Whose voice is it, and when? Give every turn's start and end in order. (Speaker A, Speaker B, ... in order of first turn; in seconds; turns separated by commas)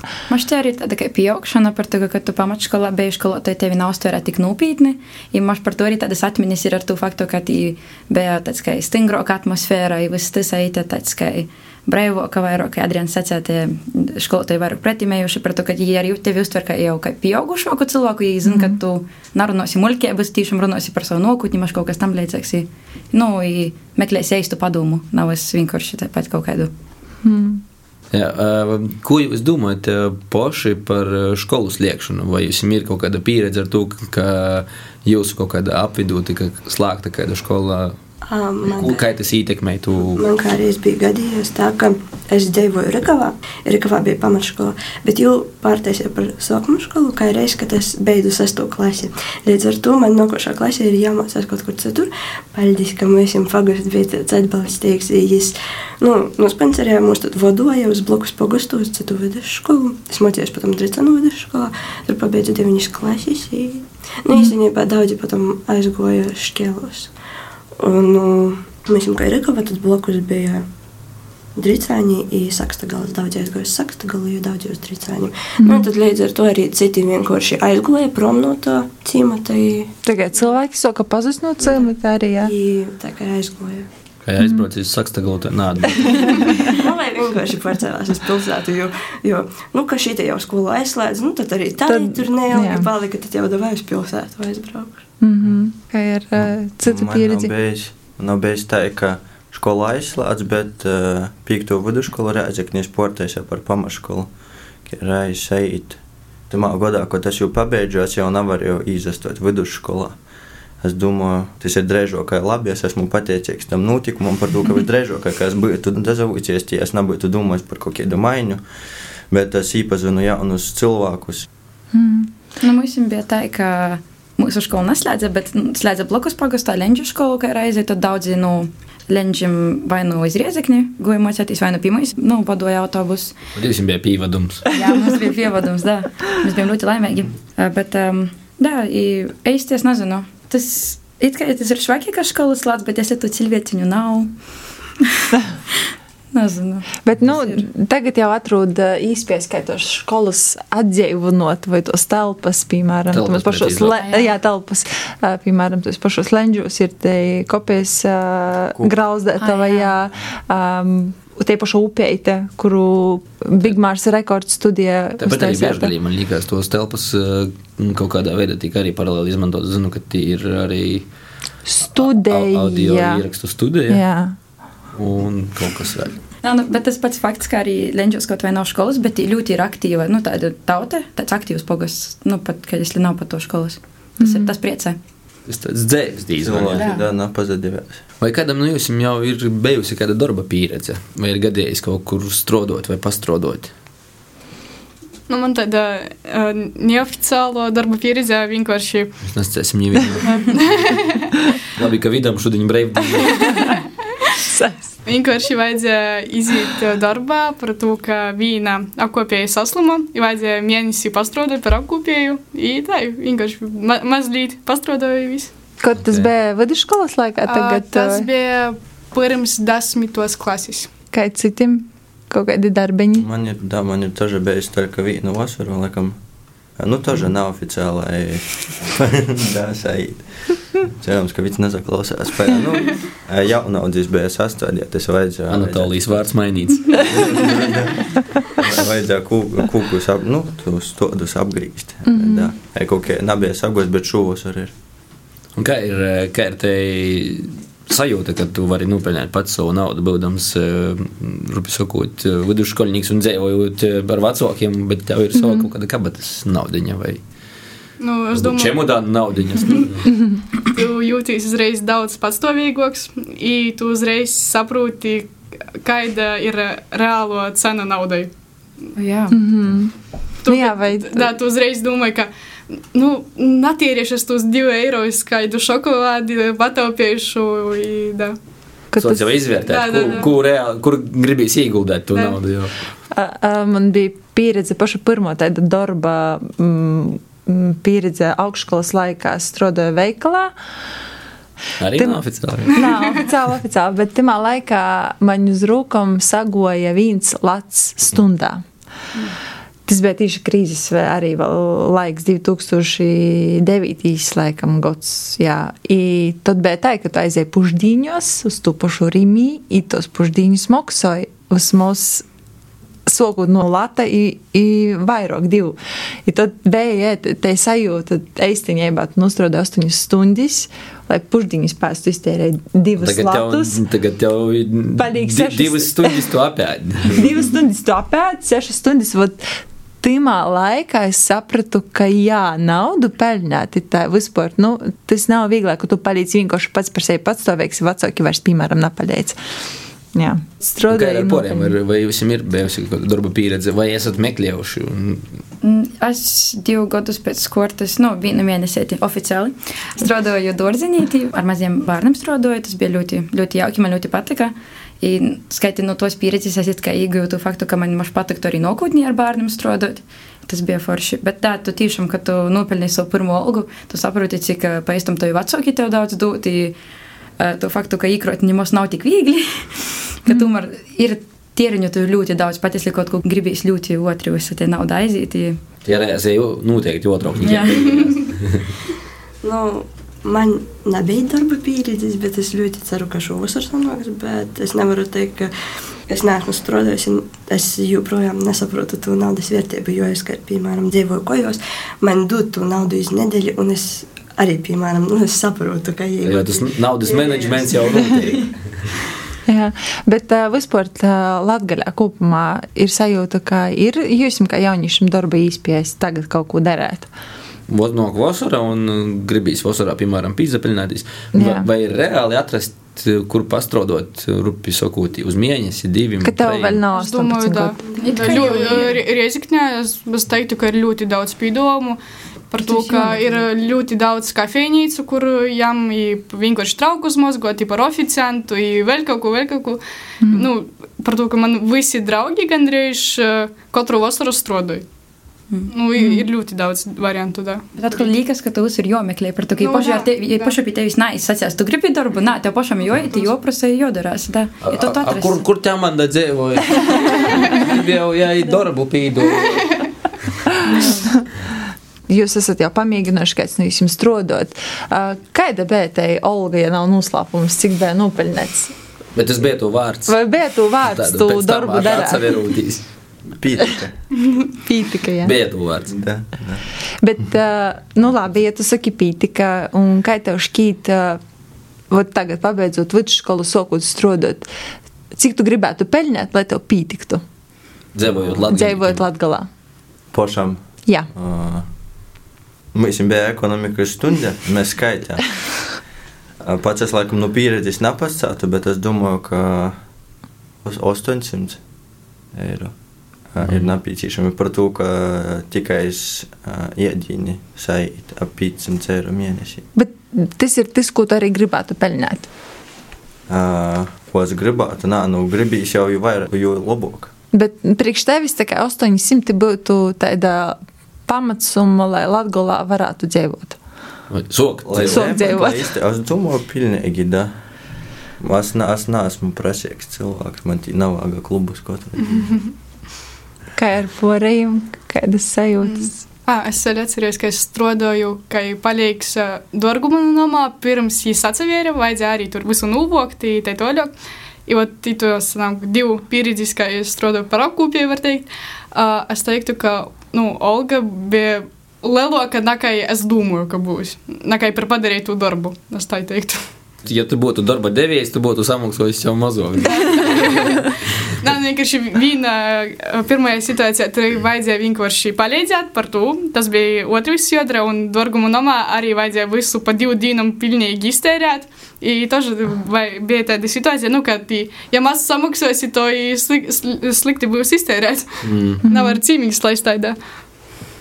Speaker A: 0.3-26.7, Speaker B: 18.5-18.8, Speaker B: 27.2-27.6, Speaker C: 28.1-38.0, Speaker D: 38.3-39.1, Speaker C: 38.6-40.2, Speaker D: 40.1-67.1, Speaker D: 67.8-70.7, Speaker D: 71.6-79.9, Speaker B: 75.6-75.9, Speaker B: 80.0-82.5, Speaker D: 82.4-83.9, Speaker C: 84.2-86.6, Speaker B: 84.4-84.6, Speaker D: 86.5-95.0, Speaker B: 91.9-92.9, Speaker B: 95.2-97.5, Speaker E: 96.4-104.3, Speaker E: 104.9-106.0, Speaker E: 106.5-110.2, Speaker E: 110.8-118.6, Speaker E: 119.3-121.5, Speaker B: 121.9-122.3, Speaker A: 122.6-133.3, Speaker C: 133.6-134.6, Speaker A: 134.7-144.3, Speaker B: 134.8-135.2, Speaker A: 146.3-147.6, Speaker B: 147.1-165.9, Speaker C: 153.1-154.0, Speaker A: 153.9-154.3, Speaker A: 159.4-159.9, Speaker C: 165.2-171.1, Speaker B: 171.7-173.2, Speaker C: 172.0-174.0, Speaker B: 173.9-174.3, Speaker C: 174.9-176.2, Speaker A: 176.4-185.0, Speaker B: 184.2-184.5, Speaker C: 185.5-186.9, Speaker E: 186.4-188.0, Speaker A: 186.7-187.1, Speaker C: 188.2-193.7, Speaker F: 195.3-199.2, Speaker C: 199.3-201.0, Speaker F: 200.4-201.3, Speaker C: 201.7-203.8, Speaker B: 204.5-204.9, Speaker F: 205.1-215.5, Speaker B: 215.8-218.3, Speaker C: 216.0-216.3, Speaker F: 217.4-220.9, Speaker B: 221.1-223.3, Speaker E: 223.2-226.2, Speaker E: 226.8-236.2, Speaker C: 235.5-237.5, Speaker E: 236.9-244.7, Speaker B: 242.1-242.5, Speaker C: 245.6-257.2, Speaker B: 255.4-255.7, Speaker F: 258.0-258.9, Speaker C: 258.3-260.1, Speaker F: 260.6-268.3, Speaker A: 269.0-269.4, Speaker B: 269.3-271.3, Speaker F: 270.4-278.4, Speaker B: 278.9-279.3, Speaker C: 278.9-282.7, Speaker F: 279.6-280.3, Speaker B: 283.1-290.5, Speaker C: 291.8-293.2, Speaker B: 292.0-298.6, Speaker B: 299.9-312.2, Speaker B: 313.1-323.8, Speaker C: 323.0-327.3, Speaker B: 325.0-326.2, Speaker B: 327.1-329.5, Speaker B: 330.0-339.4, Speaker B: 340.1-341.7, Speaker C: 340.9-345.3, Speaker A: 345.6-366.8, Speaker A: 367.4-375.6, Speaker C: 375.9-378.7, Speaker A: 377.4-378.0, Speaker D: 379.4-385.5, Speaker D: 386.1-398.4, Speaker C: 396.2-398.6, Speaker B: 399.5-407.1, Speaker C: 407.7-416.8, Speaker B: 411.3-411.7, Speaker B: 416.2-417.8, Speaker F: 416.9-422.0, Speaker A: 418.0-418.9, Speaker F: 422.5-434.9, Speaker A: 422.7-423.4, Speaker B: 430.2-430.5, Speaker A: 435.5-436.2, Speaker F: 435.7-437.6, Speaker A: 437.8-445.4, Speaker F: 439.6-440.6, Speaker C: 444.6-449.8, Speaker F: 449.4-449.9, Speaker A: 450.6-451.0, Speaker B: 452.1-458.8, Speaker C: 459.1-460.2, Speaker B: 460.1-462.4, Speaker C: 460.8-462.9, Speaker E: 463.4-464.0, Speaker B: 464.5-465.4, Speaker C: 465.2-465.9, Speaker E: 465.9-466.6, Speaker B: 467.0-471.2, Speaker B: 471.9-474.5, Speaker B: 475.1-477.2, Speaker C: 477.9-479.0, Speaker B: 478.5-479.5, Speaker E: 480.1-480.6, Speaker E: 481.1-481.6, Speaker E: 482.7-485.4, Speaker E: 486.4-489.8, Speaker E: 490.6-491.6, Speaker E: 492.3-492.7, Speaker E: 493.3-499.6, Speaker B: 499.8-502.3, Speaker E: 503.3-507.1, Speaker B: 507.3-513.6, Speaker C: 514.1-515.1, Speaker E: 514.6-517.3, Speaker B: 514.8-515.8, Speaker E: 518.2-522.4, Speaker B: 523.5-525.9, Speaker F: 525.6-533.9, Speaker F: 534.5-546.4, Speaker C: 546.9-550.7, Speaker F: 549.8-550.6, Speaker F: 551.2-570.0, Speaker C: 568.2-568.6, Speaker B: 568.7-569.0